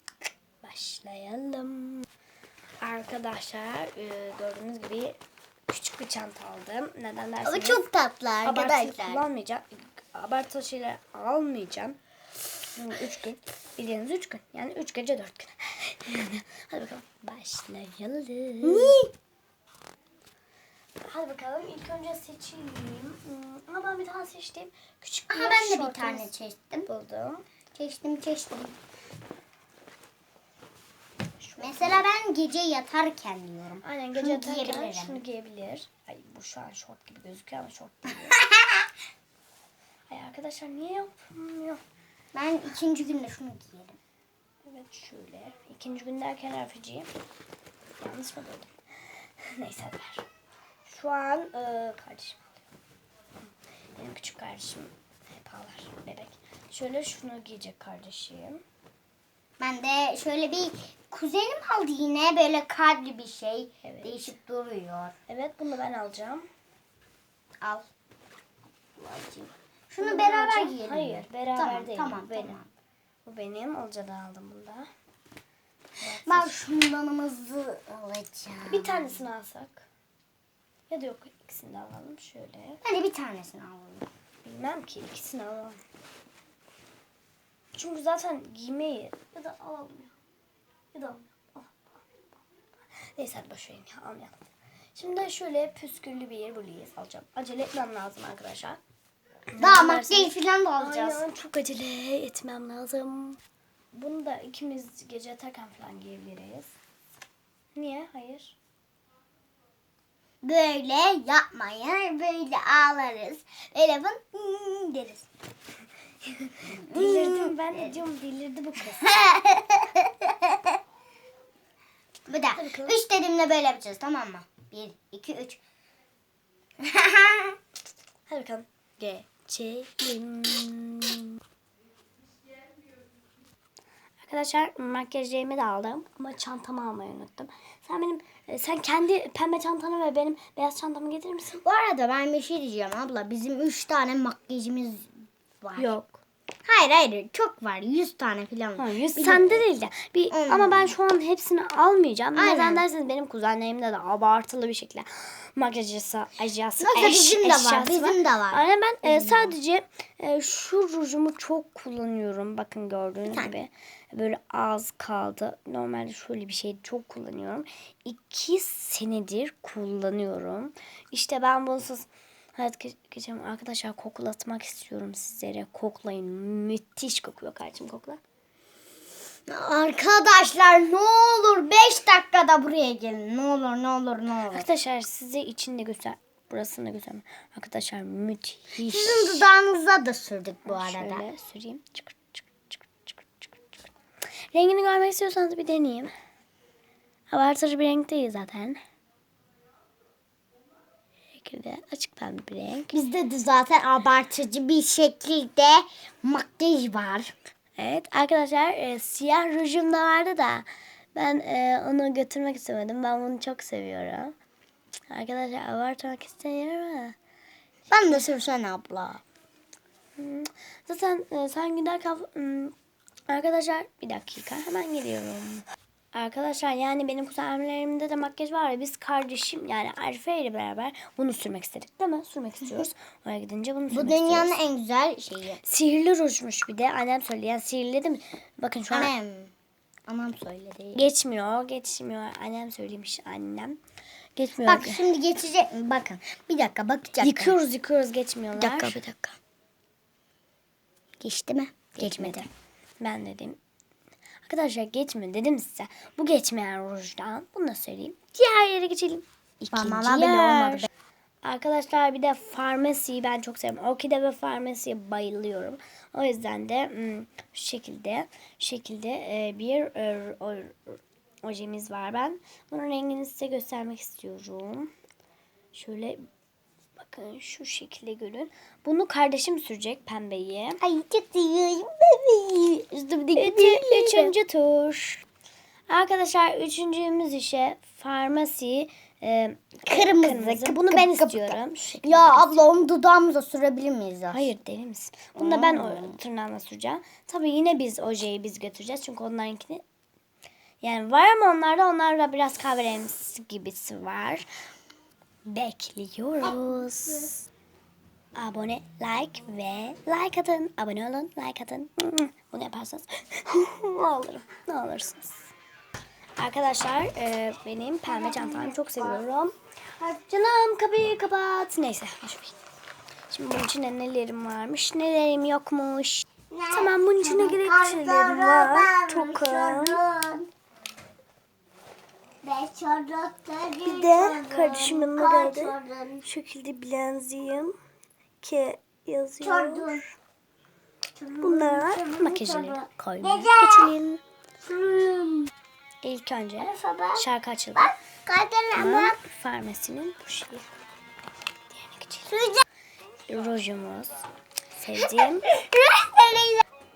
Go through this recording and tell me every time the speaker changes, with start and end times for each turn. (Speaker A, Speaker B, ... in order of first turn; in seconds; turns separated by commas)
Speaker A: 0.6-2.1, Speaker A: 2.8-5.2, Speaker A: 5.7-7.8, Speaker B: 7.5-9.2, Speaker A: 8.4-12.0, Speaker A: 12.8-19.0, Speaker B: 18.6-19.1, Speaker A: 21.1-26.3, Speaker B: 25.3-26.9, Speaker A: 26.9-27.4, Speaker B: 27.8-28.8, Speaker A: 31.4-32.0, Speaker B: 31.6-35.2, Speaker A: 33.8-38.4, Speaker B: 38.3-38.9, Speaker A: 40.1-41.8, Speaker B: 42.3-44.0, Speaker A: 44.6-47.1, Speaker A: 48.0-50.3, Speaker A: 50.9-52.5, Speaker A: 54.0-58.6, Speaker B: 59.6-65.2, Speaker A: 63.8-64.3, Speaker A: 65.3-66.5, Speaker B: 67.6-67.9, Speaker B: 69.0-72.7, Speaker A: 70.0-72.6, Speaker A: 73.2-74.9, Speaker A: 76.0-76.5, Speaker B: 76.2-79.2, Speaker A: 78.7-79.9, Speaker A: 80.9-82.8, Speaker B: 82.8-84.1, Speaker A: 84.4-85.8, Speaker A: 87.7-90.1, Speaker A: 90.9-91.8, Speaker A: 93.2-94.4, Speaker A: 95.0-98.8, Speaker A: 99.5-103.4, Speaker B: 99.6-101.2, Speaker A: 103.9-106.8, Speaker A: 107.8-108.6, Speaker B: 110.4-115.3, Speaker A: 116.4-119.2, Speaker B: 116.7-117.9, Speaker B: 119.0-120.8, Speaker B: 122.3-125.6, Speaker A: 122.5-123.0, Speaker B: 126.8-127.6, Speaker A: 128.3-131.4, Speaker A: 134.2-141.6, Speaker B: 141.6-145.9, Speaker A: 145.8-146.2, Speaker B: 146.7-149.6, Speaker A: 148.8-178.2, Speaker B: 150.3-150.9, Speaker B: 152.3-152.8, Speaker B: 156.8-159.6, Speaker B: 163.3-163.5, Speaker B: 179.5-184.7, Speaker A: 184.5-189.5, Speaker B: 188.8-191.2, Speaker A: 190.7-193.7, Speaker A: 194.5-196.1, Speaker A: 197.3-198.8, Speaker A: 201.4-202.9, Speaker B: 202.9-207.3, Speaker A: 207.8-214.3, Speaker A: 215.1-217.2, Speaker B: 217.9-219.2, Speaker A: 220.2-222.8, Speaker A: 223.3-234.6, Speaker B: 233.9-235.6, Speaker A: 235.6-239.1, Speaker B: 238.9-239.5, Speaker B: 240.1-241.1, Speaker A: 240.9-243.8, Speaker A: 244.4-245.1, Speaker B: 244.7-247.6, Speaker A: 247.2-249.0, Speaker B: 248.6-249.4, Speaker B: 251.2-252.5, Speaker A: 252.0-252.5, Speaker A: 253.0-253.6, Speaker A: 254.4-260.9, Speaker B: 259.7-260.9, Speaker A: 261.4-274.9, Speaker A: 275.7-276.2, Speaker A: 277.0-280.8, Speaker B: 280.8-284.3, Speaker A: 283.4-285.2, Speaker A: 285.9-292.6, Speaker B: 289.9-294.5, Speaker A: 294.3-299.8, Speaker B: 295.4-296.2, Speaker A: 300.8-304.5, Speaker A: 305.5-307.5, Speaker A: 308.4-315.5, Speaker A: 316.4-319.6, Speaker B: 318.1-319.2, Speaker A: 320.1-322.6, Speaker A: 323.3-330.0, Speaker B: 326.5-330.5, Speaker B: 332.4-336.3, Speaker A: 333.9-337.8, Speaker A: 338.4-340.1, Speaker B: 339.4-340.1, Speaker B: 341.2-343.9, Speaker A: 341.4-344.2, Speaker B: 344.6-345.5, Speaker A: 346.0-347.9, Speaker B: 346.6-349.2, Speaker A: 348.8-350.7, Speaker A: 351.7-352.4, Speaker B: 352.3-352.6, Speaker A: 353.3-355.5, Speaker B: 355.4-356.6